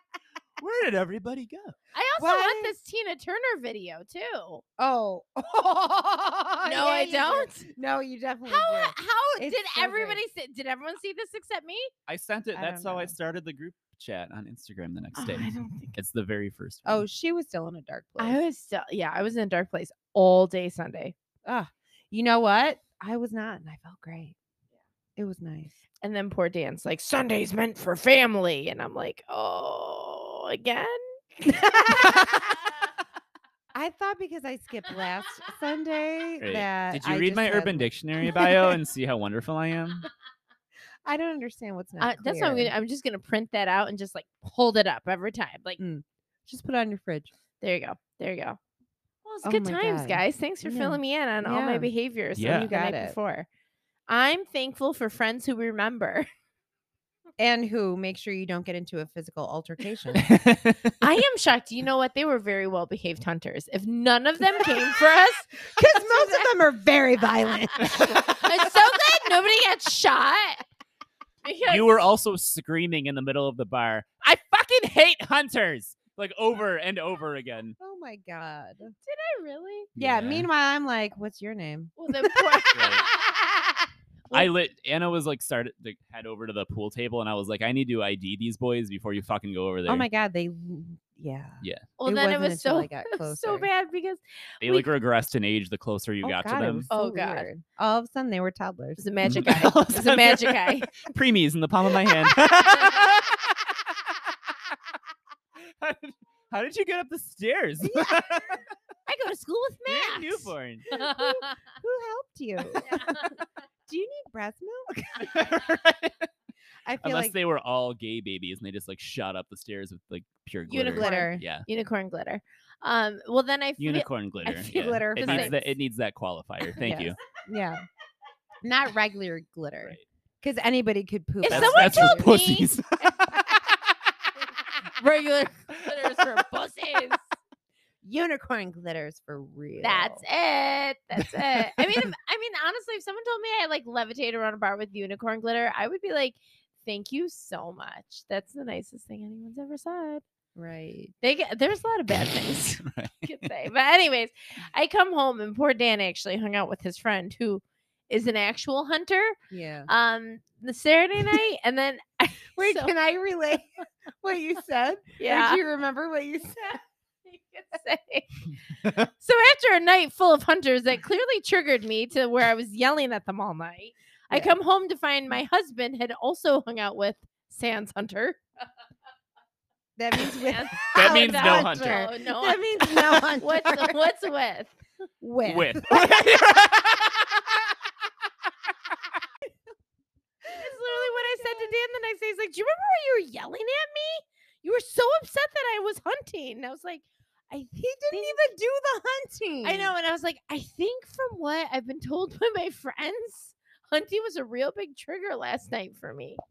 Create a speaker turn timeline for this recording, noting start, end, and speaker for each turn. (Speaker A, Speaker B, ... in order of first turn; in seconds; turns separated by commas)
Speaker A: 0.6-1.8, Speaker B: 1.9-4.6, Speaker C: 2.2-2.8, Speaker C: 4.8-10.2, Speaker B: 6.6-7.7, Speaker B: 8.5-11.9, Speaker A: 12.1-17.0, Speaker C: 12.5-13.2, Speaker B: 15.2-16.0, Speaker C: 16.9-18.4, Speaker B: 18.2-21.1, Speaker C: 21.4-24.4, Speaker C: 25.2-25.8, Speaker B: 26.0-31.8, Speaker C: 31.5-32.6, Speaker C: 33.8-38.8, Speaker A: 36.4-40.1, Speaker C: 41.0-42.7, Speaker B: 42.0-45.8, Speaker C: 45.8-47.3, Speaker B: 47.6-48.6, Speaker B: 49.2-53.5, Speaker C: 49.4-53.2, Speaker A: 52.4-52.7, Speaker B: 54.1-56.3, Speaker C: 57.4-60.3, Speaker A: 60.2-60.9, Speaker B: 61.0-66.5, Speaker C: 65.7-68.2, Speaker B: 67.8-70.6, Speaker B: 71.4-72.0, Speaker A: 71.7-77.8, Speaker C: 77.8-78.9, Speaker B: 79.1-79.9, Speaker A: 80.0-80.5, Speaker C: 80.0-83.8, Speaker B: 82.0-83.1, Speaker A: 82.7-83.1, Speaker A: 84.3-90.1, Speaker C: 89.9-93.7, Speaker B: 92.0-94.9, Speaker A: 94.6-96.9, Speaker C: 96.2-99.0, Speaker B: 96.9-97.5, Speaker B: 99.0-100.9, Speaker A: 99.2-103.7, Speaker A: 105.8-108.5, Speaker C: 107.8-108.6, Speaker B: 109.1-111.5, Speaker A: 109.9-110.9, Speaker C: 110.9-112.9, Speaker B: 112.8-113.4, Speaker C: 113.9-115.4, Speaker A: 115.2-116.2, Speaker C: 116.8-117.4, Speaker A: 117.0-121.7, Speaker B: 120.7-125.7, Speaker C: 121.0-121.4, Speaker A: 123.8-127.2, Speaker C: 124.7-125.5, Speaker C: 126.8-127.8, Speaker C: 128.6-132.4, Speaker B: 131.4-132.7, Speaker A: 131.5-133.6, Speaker B: 135.0-137.2, Speaker C: 138.0-140.2, Speaker B: 139.8-150.2, Speaker C: 150.6-151.1, Speaker B: 151.2-159.4, Speaker A: 152.8-153.3, Speaker C: 159.5-159.9, Speaker B: 159.9-162.9, Speaker C: 162.6-166.8, Speaker B: 165.2-165.6, Speaker B: 166.6-168.4, Speaker B: 169.0-178.4, Speaker C: 180.0-184.0, Speaker B: 180.3-184.8, Speaker A: 180.9-182.0, Speaker C: 185.2-186.1, Speaker A: 185.4-187.4, Speaker C: 190.5-191.8, Speaker B: 190.5-198.4, Speaker C: 197.7-199.9, Speaker B: 199.6-206.4